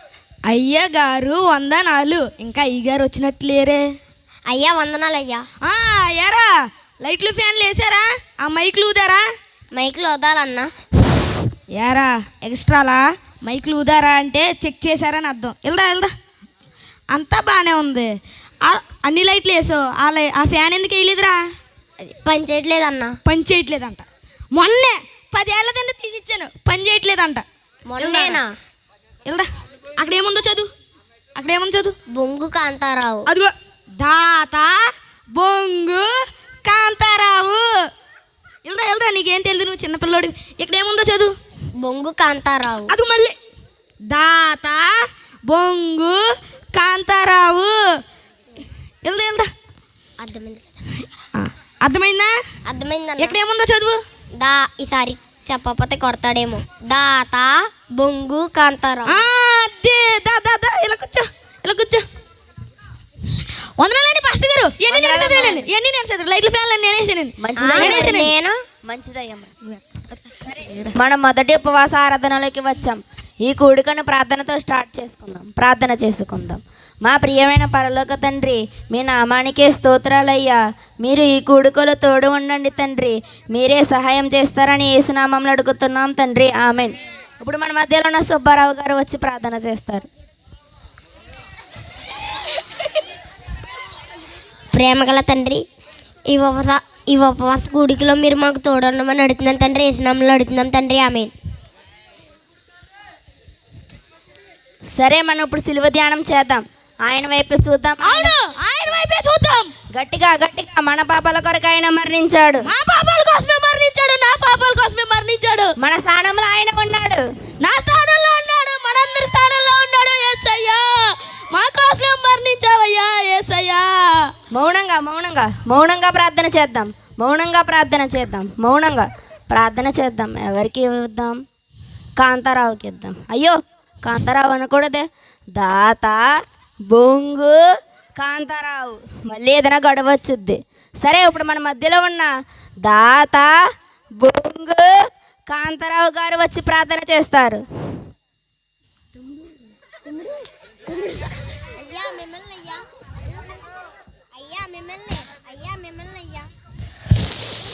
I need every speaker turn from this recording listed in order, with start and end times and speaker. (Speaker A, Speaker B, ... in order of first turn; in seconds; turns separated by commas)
Speaker A: 0.5-3.8, Speaker B: 4.5-5.5, Speaker A: 5.6-9.2, Speaker B: 9.7-10.7, Speaker A: 11.7-16.1, Speaker A: 17.1-18.1, Speaker A: 18.6-21.4, Speaker B: 22.0-23.1, Speaker A: 23.2-27.4, Speaker B: 27.9-28.5, Speaker A: 28.0-28.4, Speaker A: 30.0-30.7, Speaker A: 31.4-31.9, Speaker B: 32.1-33.3, Speaker A: 33.3-36.1, Speaker A: 36.6-37.6, Speaker A: 38.6-41.3, Speaker B: 41.8-42.9, Speaker A: 42.9-43.3, Speaker A: 44.1-44.9, Speaker A: 45.5-46.2, Speaker A: 46.7-47.7, Speaker A: 49.0-49.5, Speaker B: 50.2-51.0, Speaker A: 51.3-52.3, Speaker B: 52.6-53.4, Speaker A: 53.2-54.0, Speaker B: 54.4-59.2, Speaker A: 59.0-62.0, Speaker A: 63.8-68.3, Speaker C: 64.9-65.6, Speaker C: 67.4-68.2, Speaker B: 67.6-68.6, Speaker C: 68.8-69.5, Speaker A: 70.5-70.9, Speaker C: 70.9-90.0, Speaker B: 94.7-95.6, Speaker B: 96.3-101.3, Speaker C: 104.9-108.3, Speaker A: 108.0-109.7, Speaker C: 109.9-112.7, Speaker A: 112.6-115.7, Speaker C: 115.8-117.2, Speaker A: 117.6-124.3, Speaker C: 124.5-131.4, Speaker C: 132.2-136.2, Speaker C: 136.9-137.6, Speaker C: 138.2-142.3, Speaker C: 142.8-143.5, Speaker C: 144.2-144.9, Speaker C: 145.5-147.6, Speaker B: 151.8-152.8, Speaker B: 154.3-156.5